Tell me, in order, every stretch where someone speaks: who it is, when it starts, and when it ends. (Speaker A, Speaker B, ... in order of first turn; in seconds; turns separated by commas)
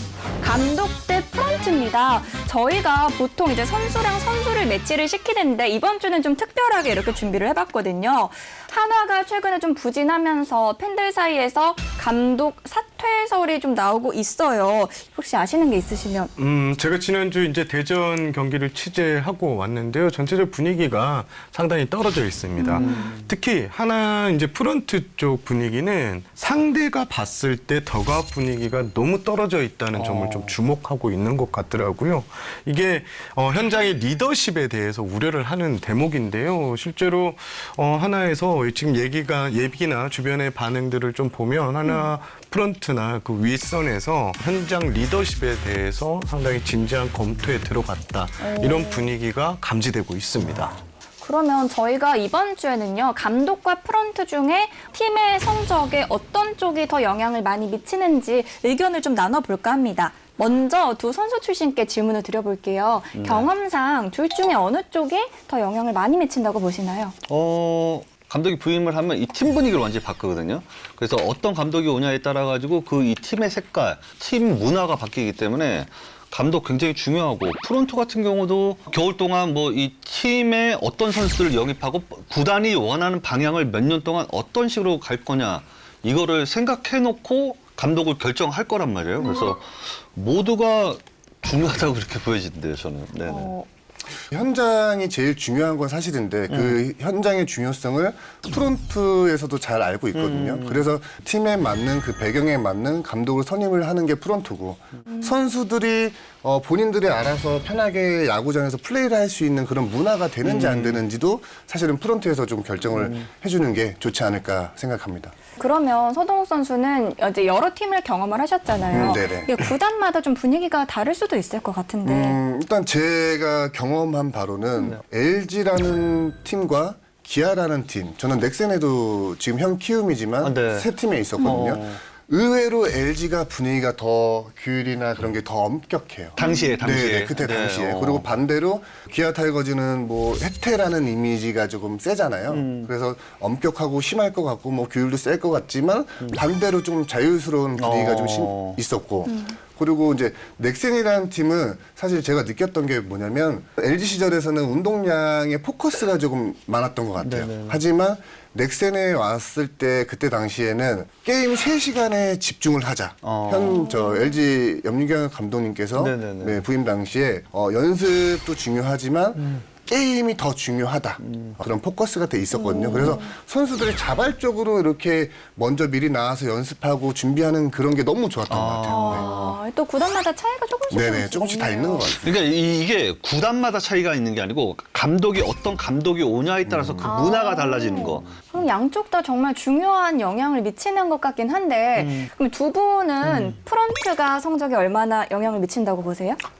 Speaker A: 0.4-16.3, Speaker B: 16.4-50.8, Speaker A: 22.6-23.1, Speaker C: 22.7-23.3, Speaker C: 29.9-30.6, Speaker A: 48.4-49.1, Speaker A: 51.2-67.1, Speaker C: 63.1-63.5, Speaker C: 67.3-93.5, Speaker A: 93.2-93.7, Speaker D: 94.3-115.3, Speaker C: 96.5-96.8, Speaker C: 100.1-100.9, Speaker C: 110.4-111.0, Speaker C: 113.0-113.2, Speaker A: 115.6-122.4, Speaker D: 118.9-119.5, Speaker D: 122.0-179.3, Speaker C: 130.4-132.0, Speaker C: 136.3-138.3, Speaker A: 136.4-136.8, Speaker C: 142.5-142.9, Speaker C: 147.8-148.8, Speaker A: 149.2-149.5, Speaker C: 157.2-157.8, Speaker C: 163.2-163.8, Speaker C: 165.9-166.6, Speaker C: 171.2-171.5, Speaker A: 172.5-173.3, Speaker C: 178.5-179.5, Speaker A: 178.9-182.2, Speaker D: 180.9-182.3, Speaker C: 182.2-188.4, Speaker A: 187.0-196.4, Speaker C: 192.0-192.3